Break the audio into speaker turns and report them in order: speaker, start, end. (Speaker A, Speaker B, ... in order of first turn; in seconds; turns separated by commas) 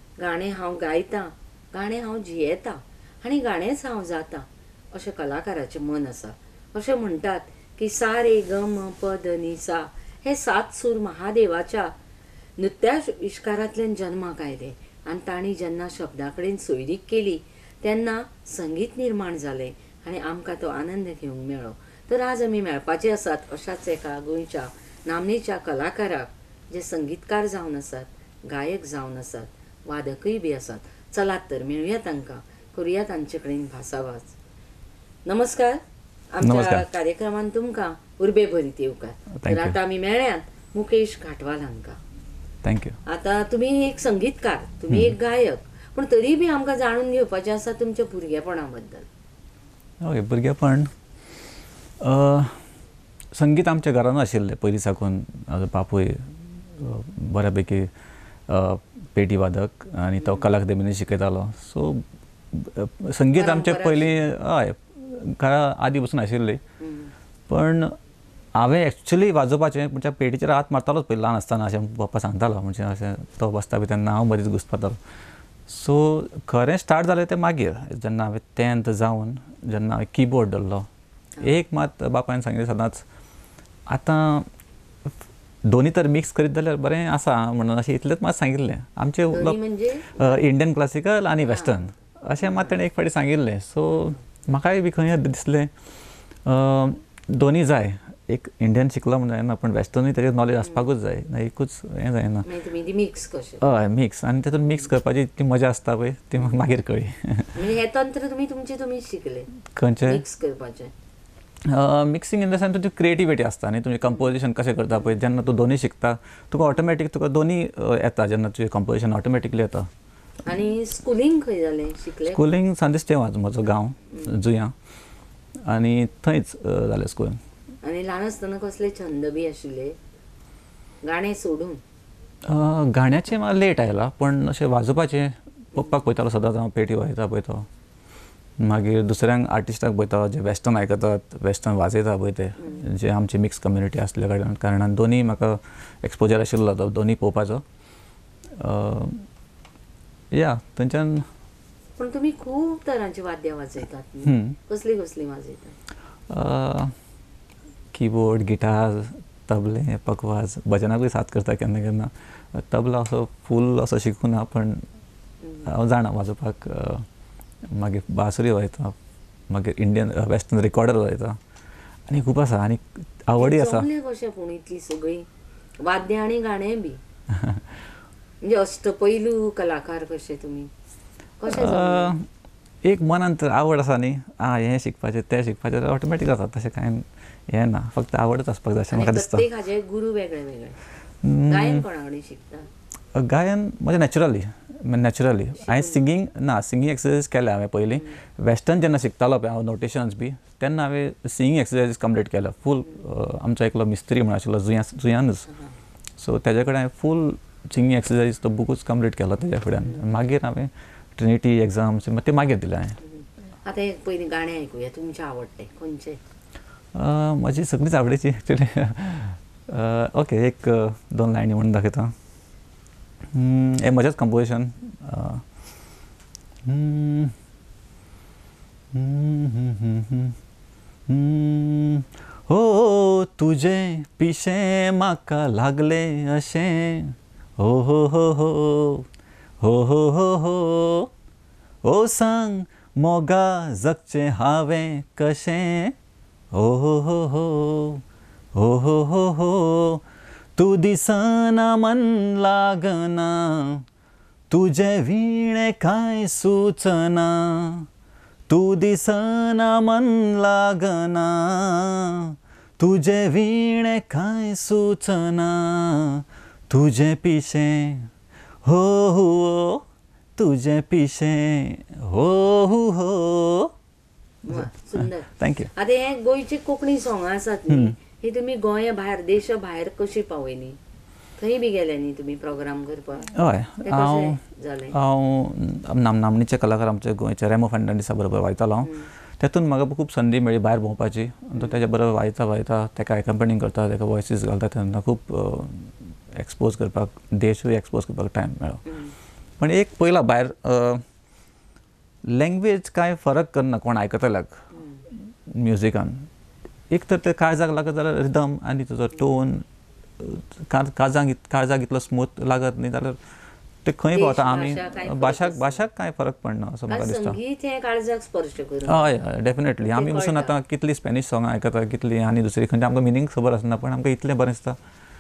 Speaker A: 0.2-11.9, Speaker A: 12.6-34.4, Speaker A: 35.2-35.8, Speaker A: 36.3-42.0, Speaker B: 36.4-36.9, Speaker B: 39.4-39.8, Speaker B: 42.6-43.0, Speaker A: 43.1-49.1, Speaker B: 44.9-45.1, Speaker B: 50.0-50.9, Speaker B: 52.0-52.6, Speaker B: 53.3-57.9, Speaker B: 58.5-66.6, Speaker A: 60.2-60.5, Speaker A: 63.4-64.2, Speaker A: 66.8-67.1, Speaker B: 67.5-67.9, Speaker B: 68.5-75.0, Speaker B: 75.7-80.9, Speaker B: 81.4-83.0, Speaker B: 83.9-84.5, Speaker B: 85.6-89.6, Speaker A: 89.3-90.5, Speaker B: 90.1-95.7, Speaker A: 91.5-91.9, Speaker A: 92.4-92.8, Speaker B: 96.5-102.5, Speaker A: 102.5-103.7, Speaker B: 103.6-107.6, Speaker A: 107.5-109.5, Speaker B: 109.7-110.2, Speaker A: 110.0-110.9, Speaker B: 111.6-119.9, Speaker A: 120.5-122.4, Speaker B: 122.2-124.8, Speaker B: 125.6-127.4, Speaker A: 127.8-130.0, Speaker A: 131.0-131.8, Speaker B: 132.4-137.7, Speaker B: 138.6-147.6, Speaker A: 142.6-142.9, Speaker B: 148.5-149.3, Speaker B: 150.3-151.3, Speaker A: 152.0-155.8, Speaker B: 154.2-154.6, Speaker B: 156.3-156.9, Speaker B: 157.9-164.8, Speaker B: 165.7-167.1, Speaker B: 167.6-169.0, Speaker B: 169.5-171.4, Speaker B: 172.1-173.9, Speaker A: 173.3-175.3, Speaker A: 175.8-177.0, Speaker B: 177.3-177.7, Speaker A: 178.4-180.7, Speaker A: 181.4-182.2, Speaker B: 181.5-182.3, Speaker B: 182.8-189.5, Speaker A: 188.9-190.8, Speaker B: 191.2-191.8, Speaker A: 191.5-192.7, Speaker B: 193.1-205.5, Speaker A: 195.6-196.0, Speaker B: 206.2-213.0, Speaker A: 213.0-216.2, Speaker B: 216.9-222.2, Speaker B: 223.3-225.4, Speaker B: 226.6-227.4, Speaker B: 228.9-230.4, Speaker B: 231.1-239.1, Speaker B: 239.6-241.1, Speaker B: 241.8-245.9, Speaker B: 246.5-248.0, Speaker B: 248.5-250.1, Speaker B: 250.6-253.9, Speaker B: 254.5-257.9, Speaker B: 258.5-268.1, Speaker B: 268.6-269.8, Speaker B: 270.4-273.7, Speaker A: 274.4-280.8, Speaker B: 274.5-275.7, Speaker B: 277.7-278.0, Speaker A: 281.4-283.3, Speaker B: 283.3-298.9, Speaker A: 283.8-285.0, Speaker A: 288.8-289.1, Speaker A: 291.6-291.8, Speaker A: 298.9-299.1, Speaker B: 299.6-301.0, Speaker B: 302.2-304.6, Speaker A: 304.7-305.0, Speaker B: 305.5-306.3, Speaker B: 306.9-309.6, Speaker B: 310.2-313.2, Speaker B: 313.8-317.4, Speaker A: 314.1-315.9, Speaker A: 316.9-319.2, Speaker B: 318.8-324.8, Speaker A: 319.8-320.6